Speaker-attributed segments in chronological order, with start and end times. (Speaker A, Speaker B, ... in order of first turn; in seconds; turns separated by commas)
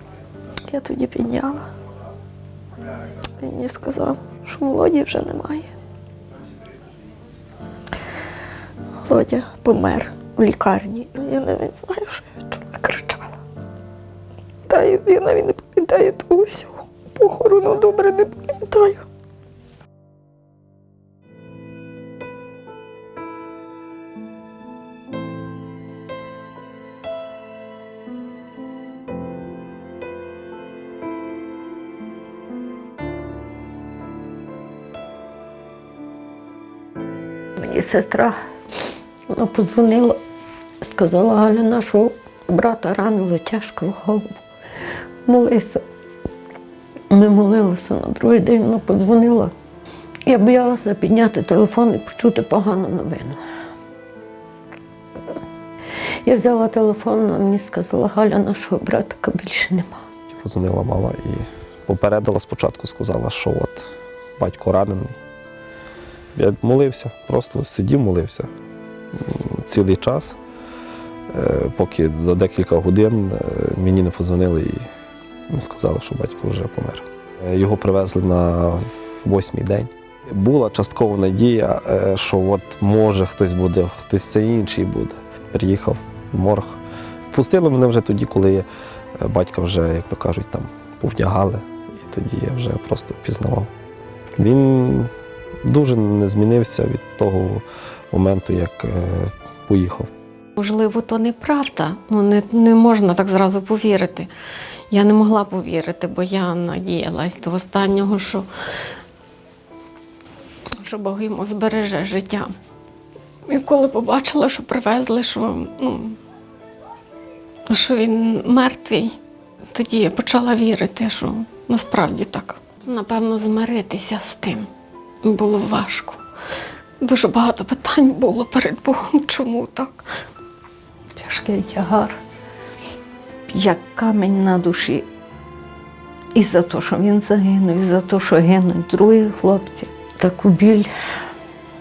Speaker A: 0.7-1.6, Speaker A: 3.4-5.7, Speaker A: 9.0-13.4, Speaker A: 14.7-19.0, Speaker B: 37.6-38.4, Speaker B: 39.3-40.2, Speaker B: 40.8-44.4, Speaker B: 45.2-45.8, Speaker B: 47.1-49.5, Speaker B: 50.2-53.4, Speaker B: 56.2-60.0, Speaker C: 60.3-63.9, Speaker C: 64.4-65.2, Speaker C: 66.3-68.5, Speaker C: 69.2-70.4, Speaker C: 71.3-74.9, Speaker C: 75.5-88.7, Speaker C: 89.2-93.7, Speaker C: 94.4-95.1, Speaker C: 95.6-100.1, Speaker D: 100.6-104.3, Speaker D: 104.9-108.5, Speaker D: 110.8-112.5, Speaker D: 113.5-116.2, Speaker D: 117.7-119.1, Speaker D: 119.7-124.7, Speaker D: 125.2-126.2, Speaker D: 127.0-130.1, Speaker E: 131.2-132.2, Speaker E: 133.5-135.1, Speaker E: 136.3-139.9, Speaker B: 140.2-140.9